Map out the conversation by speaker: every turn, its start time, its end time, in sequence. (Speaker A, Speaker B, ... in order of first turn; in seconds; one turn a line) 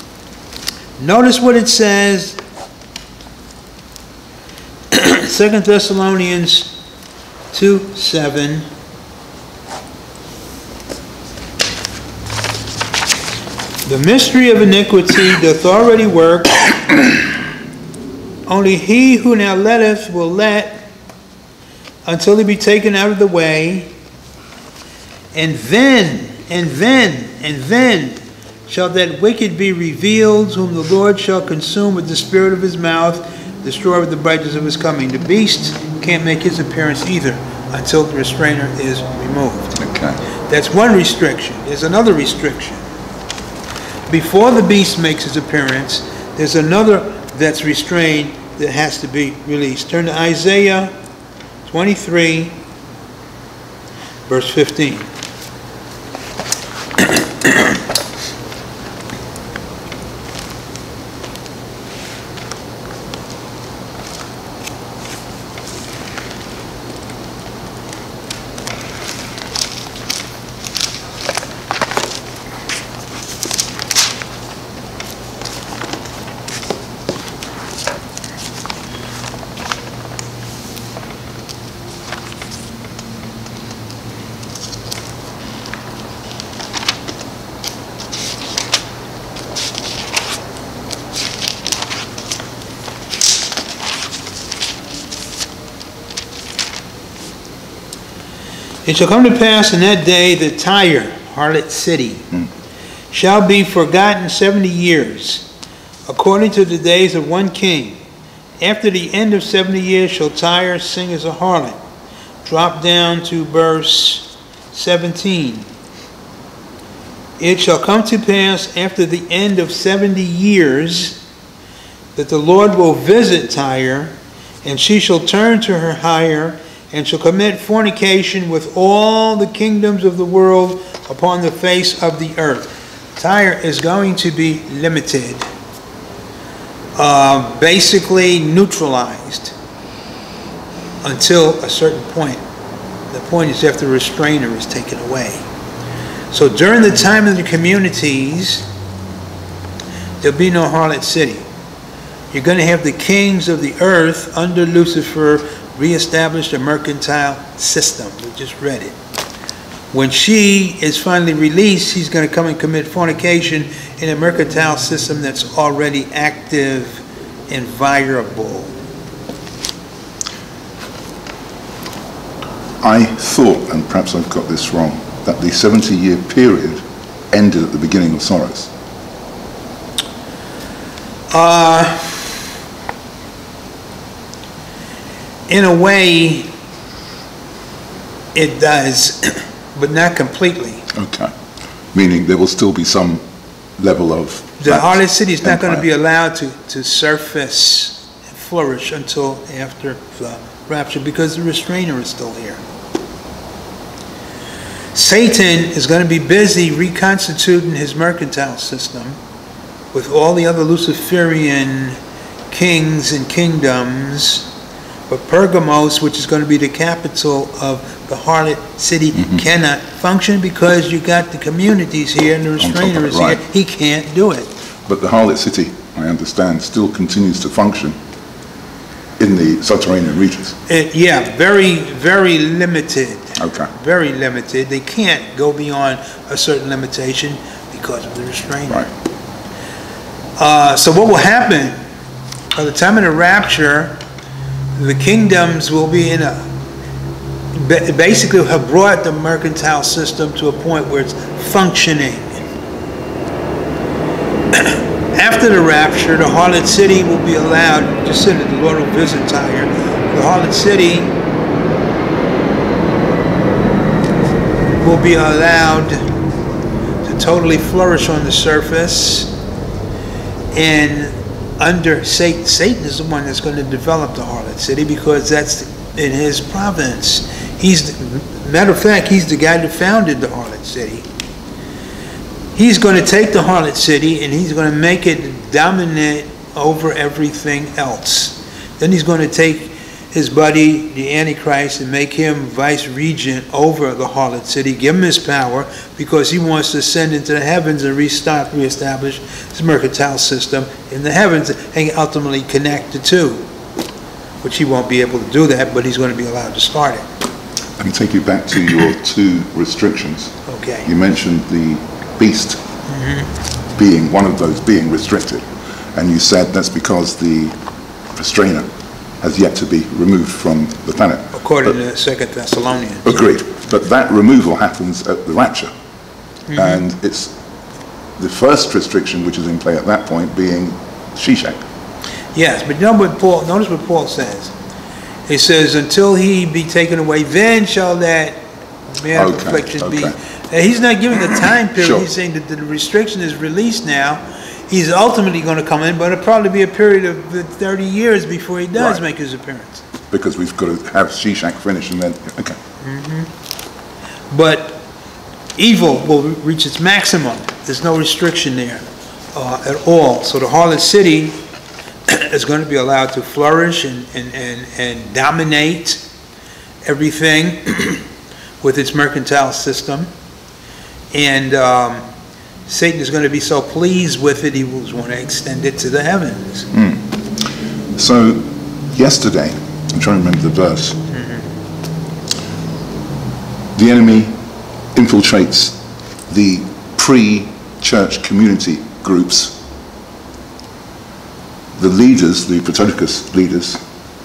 Speaker A: 1.0-2.4
Speaker A: 4.9-6.8
Speaker A: 7.5-8.7
Speaker A: 13.8-16.7
Speaker A: 18.5-20.9
Speaker A: 22.0-23.9
Speaker A: 25.3-39.8
Speaker B: 39.8-40.2
Speaker A: 40.5-42.8
Speaker A: 44.1-50.9
Speaker A: 51.6-52.6
Speaker A: 54.3-55.1
Speaker A: 57.0-57.7
Speaker A: 98.8-102.3
Speaker A: 103.1-105.5
Speaker A: 106.0-108.0
Speaker A: 108.6-111.8
Speaker A: 112.4-115.7
Speaker A: 117.4-121.2
Speaker A: 122.1-135.4
Speaker A: 136.9-139.5
Speaker A: 141.0-142.4
Speaker A: 143.1-145.4
Speaker A: 146.3-148.7
Speaker A: 150.2-151.4
Speaker A: 152.3-158.9
Speaker A: 159.9-168.7
Speaker B: 172.8-178.7
Speaker A: 181.3-182.4
Speaker A: 185.5-186.5
Speaker A: 188.3-190.8
Speaker B: 190.9-191.3
Speaker B: 191.9-193.2
Speaker B: 193.8-195.8
Speaker A: 194.6-202.6
Speaker A: 204.9-209.2
Speaker A: 209.9-212.0
Speaker A: 212.5-214.5
Speaker A: 215.1-224.5
Speaker B: 219.1-219.4
Speaker B: 222.6-223.4
Speaker B: 224.9-227.9
Speaker B: 229.2-230.6
Speaker A: 230.7-238.9
Speaker B: 233.4-233.7
Speaker A: 240.4-241.8
Speaker A: 242.5-244.0
Speaker A: 244.8-246.5
Speaker A: 247.5-252.4
Speaker A: 254.5-261.1
Speaker A: 264.7-266.1
Speaker A: 267.0-269.3
Speaker A: 270.5-281.1
Speaker A: 282.5-303.5
Speaker A: 304.4-307.1
Speaker B: 307.8-312.6
Speaker A: 310.5-310.9
Speaker A: 312.9-313.3
Speaker B: 313.8-317.5
Speaker B: 318.1-318.7
Speaker B: 319.2-321.8
Speaker A: 321.3-323.1
Speaker B: 323.0-325.7
Speaker A: 326.5-326.8
Speaker B: 326.5-327.3
Speaker B: 328.2-331.6
Speaker A: 332.3-334.5
Speaker A: 335.3-349.8
Speaker B: 339.1-340.1
Speaker B: 341.8-342.1
Speaker B: 348.8-349.0
Speaker B: 350.1-352.6
Speaker A: 352.8-353.3
Speaker A: 354.3-354.8
Speaker A: 355.6-361.4
Speaker A: 362.1-366.0
Speaker A: 366.8-368.0
Speaker A: 368.6-370.1
Speaker A: 371.1-372.0
Speaker A: 372.7-376.7
Speaker B: 376.7-381.0
Speaker A: 381.1-381.4
Speaker B: 383.7-384.4
Speaker B: 384.9-385.8
Speaker B: 386.3-389.6
Speaker B: 391.8-393.8